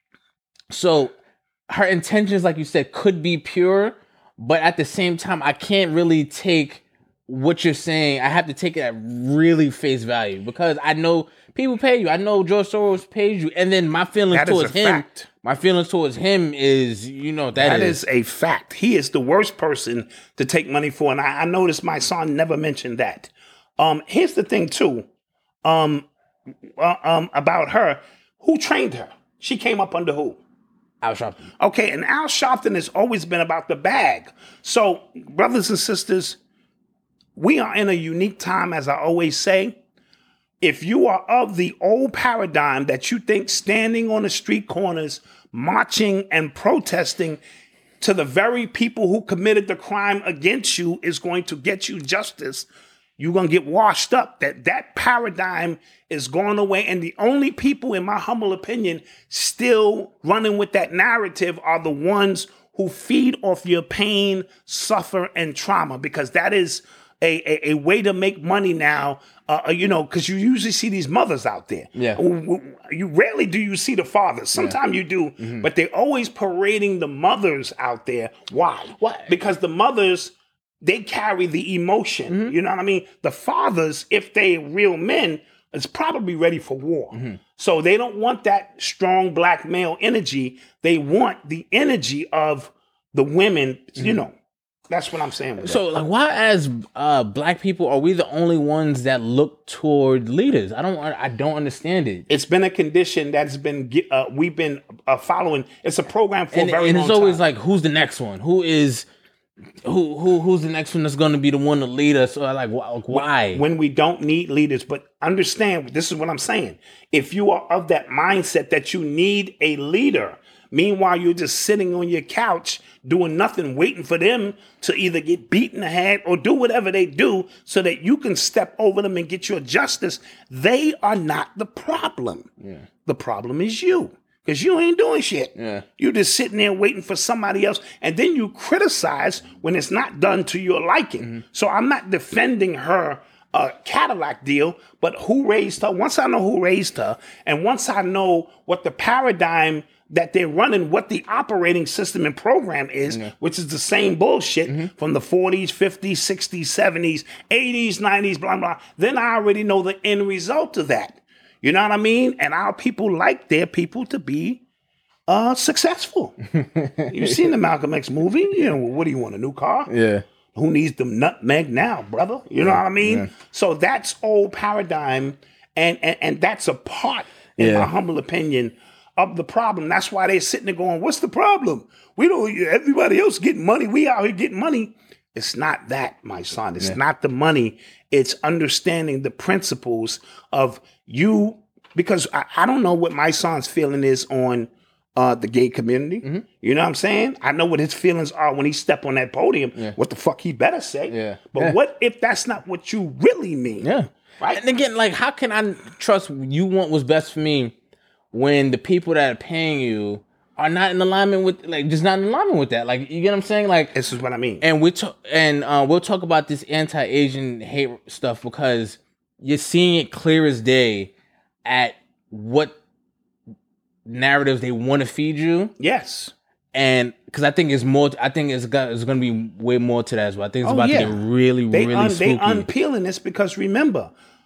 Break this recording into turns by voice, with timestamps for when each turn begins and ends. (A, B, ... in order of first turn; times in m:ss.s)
0:00.7-0:01.1 A
0:01.7-0:18.0 A
0:14.3-0:15.3 B
0:17.6-0:25.0 B
0:25.6-0:26.1 B
0:26.8-0:30.4 B
0:31.0-0:31.5 A
0:31.6-0:36.4 B
0:37.4-0:39.7 B
0:40.6-0:47.4 B
0:48.0-0:52.7 B
0:53.2-1:34.3 B
1:12.0-1:12.2 A
1:15.4-1:15.7 A
1:19.0-1:19.4 A
1:22.3-1:22.5 A
1:27.1-1:27.4 A
1:34.9-1:35.8 B
1:35.6-1:42.2 A
1:42.3-1:47.4 B
1:46.5-1:49.0 A
1:49.8-1:53.6 A
1:53.1-2:12.5 B
2:13.0-2:44.6 B
2:15.6-2:15.8 A
2:45.3-2:46.4 B
2:46.5-2:47.4 A
2:47.1-2:49.9 B
2:49.9-2:50.2 A
2:50.5-3:24.6 B
2:52.6-2:53.3 A
2:57.6-2:57.9 A
3:21.1-3:21.8 A
3:23.8-3:27.7 A
3:28.3-3:33.9 A
3:33.9-3:34.6 B
3:34.6-3:41.1 A
3:41.6-3:42.8 A
3:44.0-3:45.7 A
3:45.8-3:46.3 B
3:46.7-3:52.7 A
3:50.6-3:54.1 B